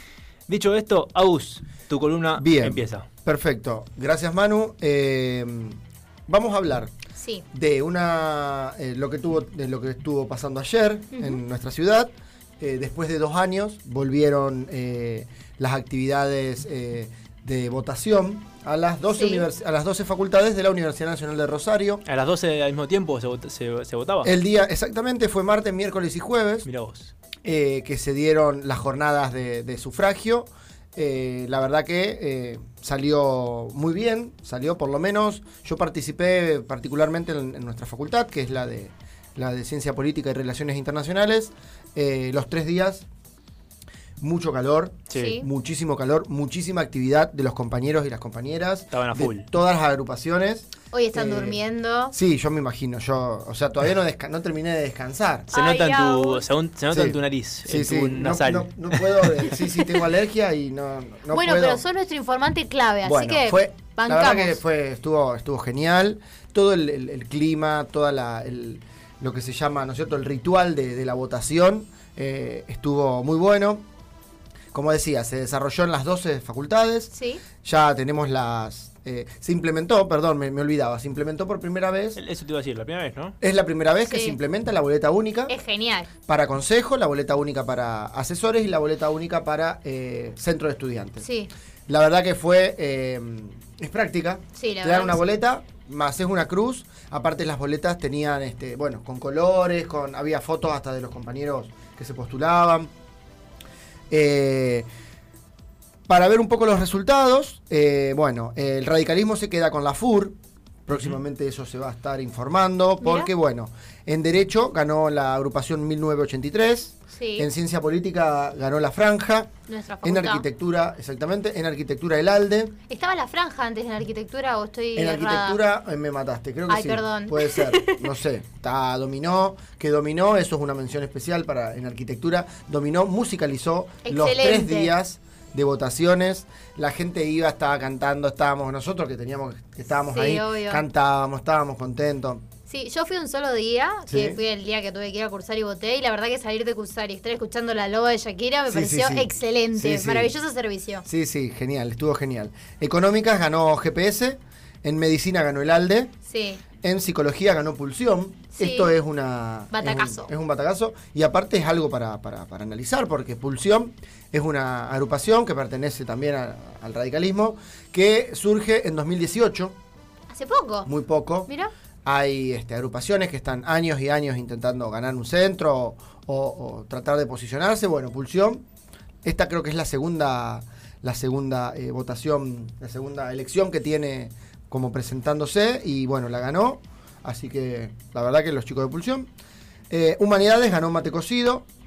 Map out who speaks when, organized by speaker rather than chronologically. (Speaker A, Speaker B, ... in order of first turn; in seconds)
Speaker A: 0.5-3.1, 22.1-24.3, 26.6-27.1, 45.1-45.4, 48.9-49.5, 55.5-59.5, 82.2-83.3
Speaker B: 2.4-6.9, 7.5-22.0, 24.2-26.7, 27.4-43.1, 44.2-55.5, 56.9-61.8, 63.0-73.8, 74.7-77.1, 77.6-82.2, 83.4-85.5, 86.3-91.2, 91.9-102.9, 104.1-104.9, 106.1-110.4, 110.9-119.5, 120.0-122.7, 125.0-142.4, 144.1-144.4, 148.7-150.3, 151.1-156.1, 156.8-169.8, 170.9-171.5, 172.1-178.6, 179.2-189.3, 189.9-191.7
Speaker C: 7.2-7.5, 11.1-11.4, 19.1-19.5, 45.1-45.5, 50.9-52.1, 55.5-56.5, 61.3-64.6, 77.1-77.4, 84.0-84.4, 85.5-86.1, 91.2-91.5, 94.5-95.2, 113.0-113.3, 117.1-117.5, 119.7-120.5, 122.9-125.6, 126.7-128.1, 134.1-134.9, 140.1-140.8, 142.7-151.1, 156.3-156.6, 158.5-158.9, 159.7-160.3, 170.3-170.9, 171.5-171.7